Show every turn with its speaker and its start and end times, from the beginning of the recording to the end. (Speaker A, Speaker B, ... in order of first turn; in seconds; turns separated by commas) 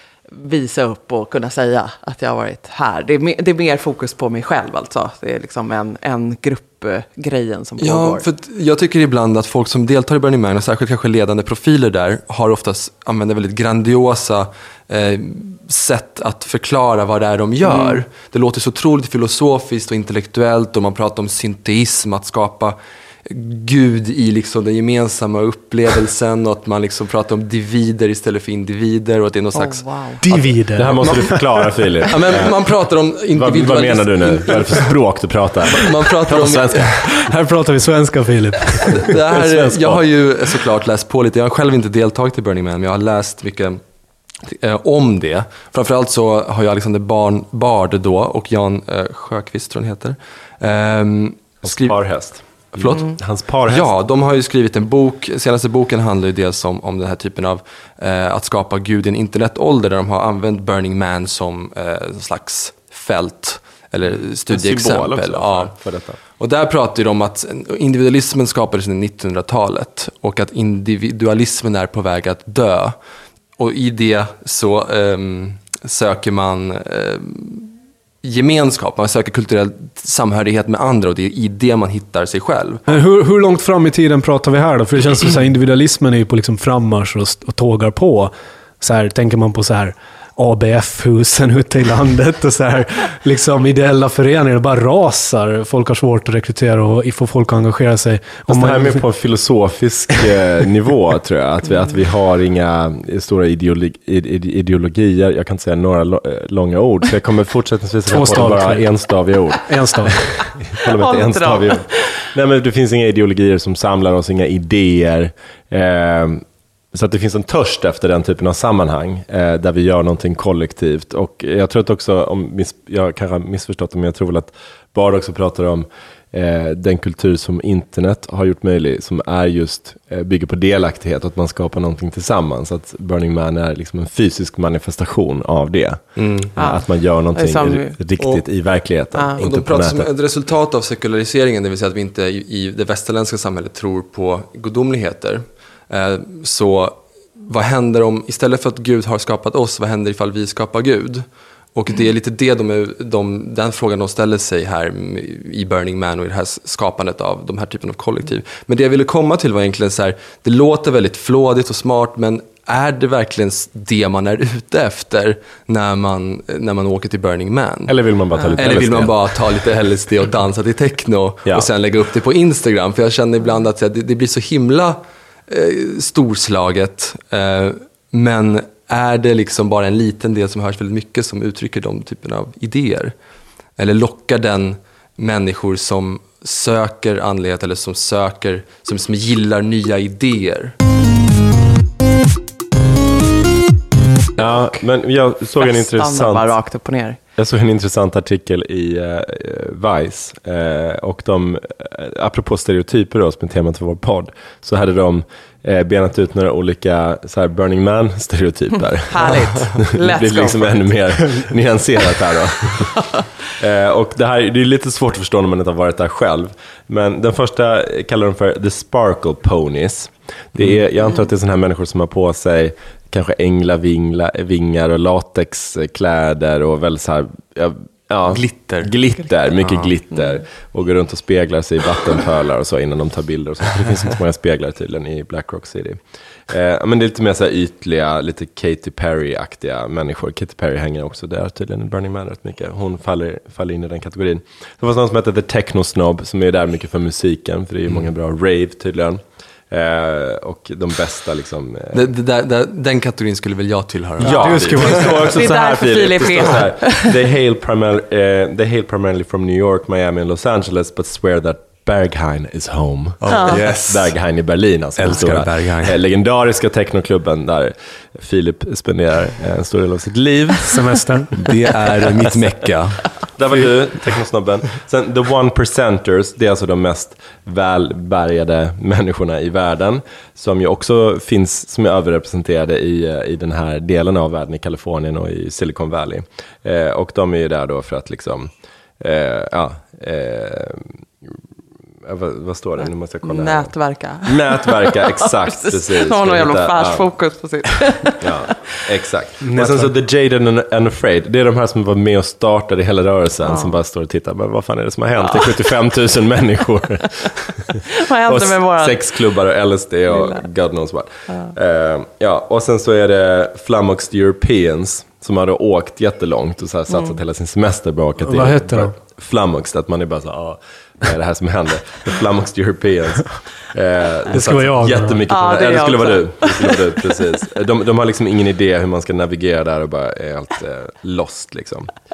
Speaker A: 0.3-8.2, Speaker B: 7.8-29.8, Speaker A: 17.6-18.0, Speaker A: 29.5-30.2, Speaker C: 30.2-31.7, Speaker D: 30.7-32.5, Speaker B: 32.1-34.9, Speaker D: 33.3-37.1, Speaker B: 35.7-37.0, Speaker C: 37.1-39.1, Speaker B: 38.9-43.8, Speaker D: 39.3-40.0, Speaker B: 44.4-65.7, Speaker D: 51.6-53.9, Speaker D: 64.5-66.2, Speaker B: 66.4-73.0, Speaker B: 73.6-77.7, Speaker B: 78.2-82.8, Speaker C: 82.9-99.0, Speaker D: 98.5-140.1, Speaker C: 108.1-108.8, Speaker C: 109.7-110.2, Speaker A: 111.0-112.2, Speaker B: 136.2-136.5, Speaker A: 136.6-137.9, Speaker B: 138.2-138.4, Speaker A: 139.1-139.4, Speaker B: 139.4-167.9, Speaker D: 167.9-169.7, Speaker A: 168.3-168.6, Speaker B: 168.6-183.1, Speaker B: 183.8-190.7, Speaker D: 194.3-196.5, Speaker A: 195.6-197.2, Speaker D: 197.3-212.9, Speaker A: 209.1-210.9, Speaker D: 213.6-252.0, Speaker B: 228.3-228.9, Speaker B: 229.6-229.9, Speaker B: 251.9-255.3, Speaker D: 254.2-270.9, Speaker C: 254.2-255.3, Speaker A: 255.3-257.1, Speaker B: 263.2-264.1, Speaker A: 263.3-263.6, Speaker B: 265.0-266.0, Speaker C: 270.6-271.4, Speaker B: 271.4-273.6, Speaker D: 273.4-290.9, Speaker D: 292.0-297.1, Speaker A: 293.2-298.5, Speaker D: 298.2-331.9, Speaker C: 299.4-299.9, Speaker A: 303.4-303.7, Speaker A: 307.9-309.1, Speaker A: 310.1-310.4, Speaker C: 318.2-318.9, Speaker C: 324.3-325.2, Speaker A: 325.3-327.2